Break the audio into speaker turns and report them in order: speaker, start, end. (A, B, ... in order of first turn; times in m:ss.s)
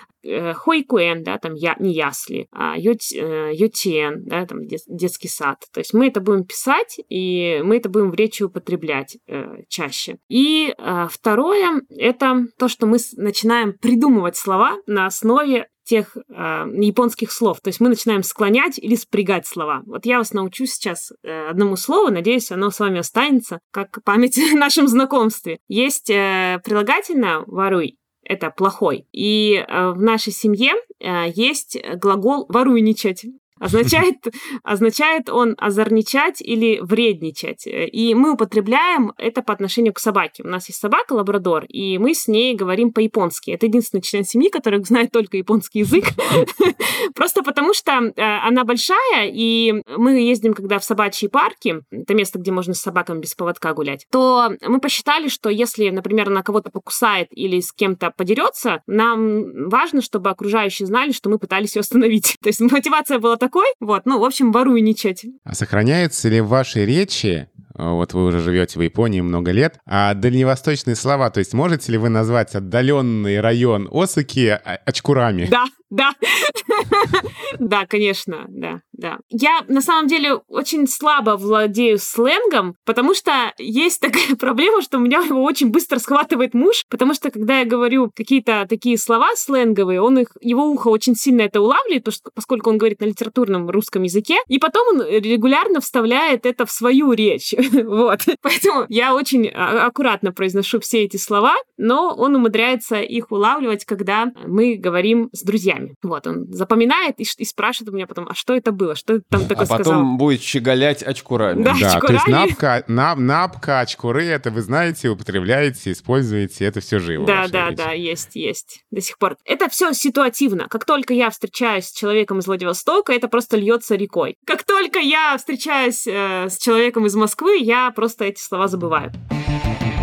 0:00.2-1:05.3 A
1:05.4-1:15.5 B
1:15.4-1:50.1 A
1:49.5-1:51.8 C
1:51.5-1:52.6 A
1:51.7-1:57.8 B
1:57.2-2:09.1 A